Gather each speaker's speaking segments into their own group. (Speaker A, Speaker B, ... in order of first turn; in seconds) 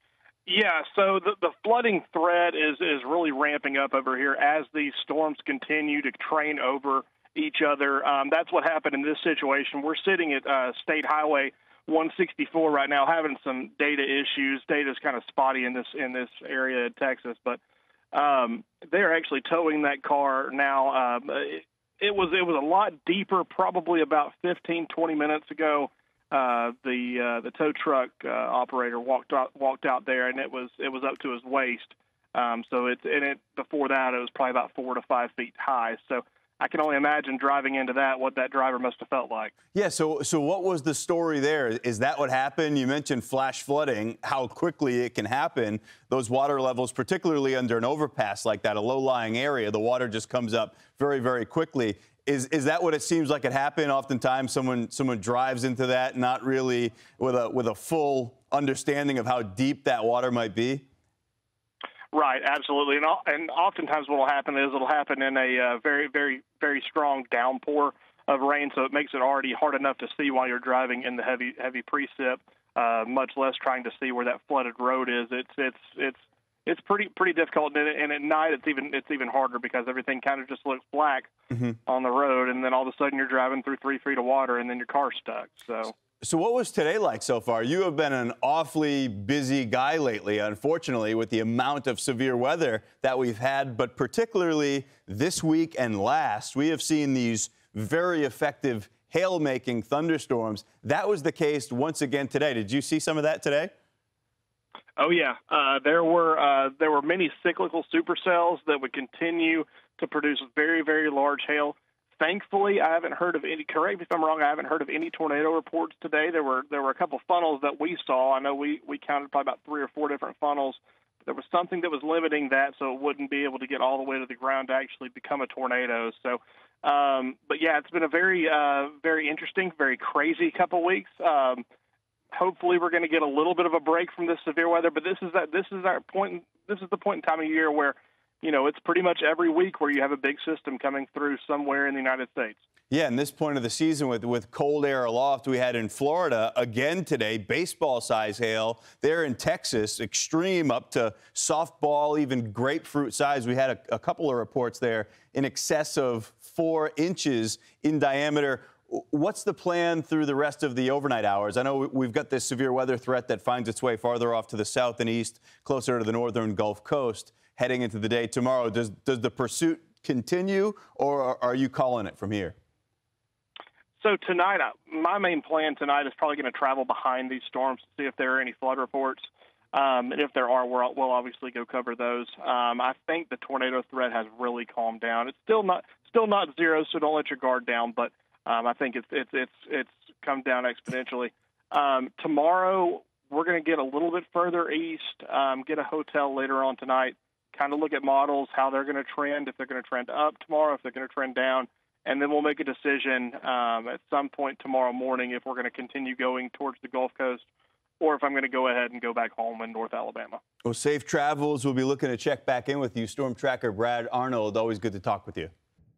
Speaker A: 0.5-17.6, 18.1-39.6, 62.1-81.3, 81.9-85.9, 105.0-131.6, 132.3-142.6, 174.0-207.4, 208.0-210.4
Speaker B: 39.7-60.9, 81.5-81.8, 86.2-103.7, 142.9-172.6, 210.6-215.5